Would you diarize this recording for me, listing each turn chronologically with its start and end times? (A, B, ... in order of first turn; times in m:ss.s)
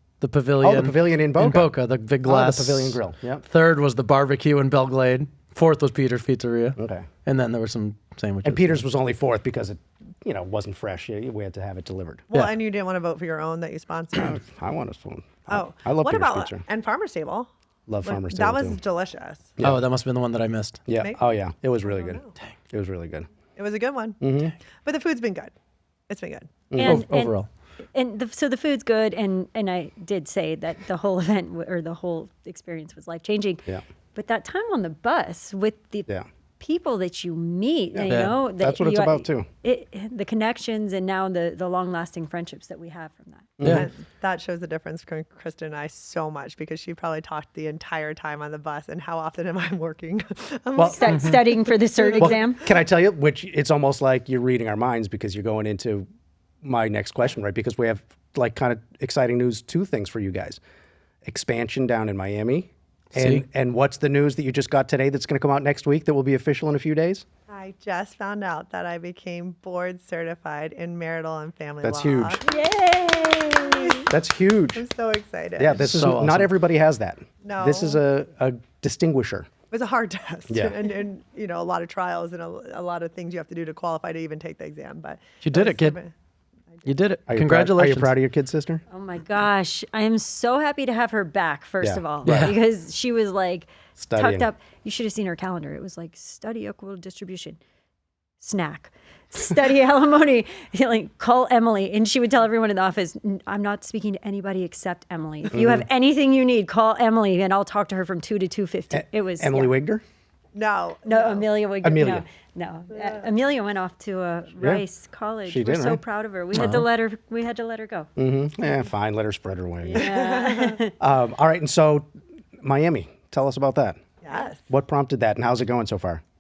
0:00.2-0:08.8 A
0:00.6-0:01.7 B
0:02.2-0:03.4 B
0:06.8-0:07.1 B
0:08.4-0:12.3 B
0:12.3-0:14.4 C
0:14.2-0:16.6 B
0:15.5-0:17.5 C
0:17.9-0:18.8 B
0:18.0-0:19.5 C
0:19.6-0:19.8 B
0:19.6-0:20.8 A
0:20.9-0:23.3 B
0:21.9-0:22.3 C
0:23.6-0:24.2 C
0:24.2-0:24.5 B
0:24.8-0:25.5 C
0:26.1-0:26.7 C
0:26.7-0:27.0 B
0:26.8-0:27.4 D
0:26.8-0:27.5 A
0:27.9-0:43.6 D
0:37.9-0:39.5 B
0:38.1-0:38.3 A
0:43.6-0:43.9 B
0:43.6-0:52.7 C
0:50.8-0:51.0 B
0:50.8-0:52.6 D
0:51.1-0:51.4 A
0:52.2-0:56.1 B
0:56.6-1:00.6 B
1:01.2-1:07.2 B
1:03.1-1:03.4 A
1:07.5-1:12.4 C
1:11.8-1:12.4 B
1:12.4-1:14.1 D
1:13.6-1:14.0 C
1:14.1-1:14.8 B
1:14.8-1:15.8 C
1:15.6-1:19.5 B
1:15.7-1:16.5 A
1:17.4-1:18.0 C
1:19.7-1:26.1 C
1:20.5-1:20.8 B
1:25.4-1:26.0 A
1:26.8-1:28.1 A
1:27.3-1:28.8 B
1:28.9-1:37.6 D
1:31.8-1:32.6 B
1:32.2-1:32.6 A
1:34.0-1:34.5 B
1:38.4-1:49.7 D
1:45.5-1:45.9 B
1:48.9-1:50.0 B
1:50.5-1:51.5 C
1:51.1-1:58.1 D
1:51.8-1:52.2 B
1:55.5-1:56.0 B
1:56.5-1:56.9 A
1:58.2-2:00.1 B
1:59.8-2:00.9 D
2:00.0-2:00.8 C
2:01.0-2:02.1 B
2:02.6-2:04.0 B
2:04.2-2:04.7 C
2:04.7-2:06.2 B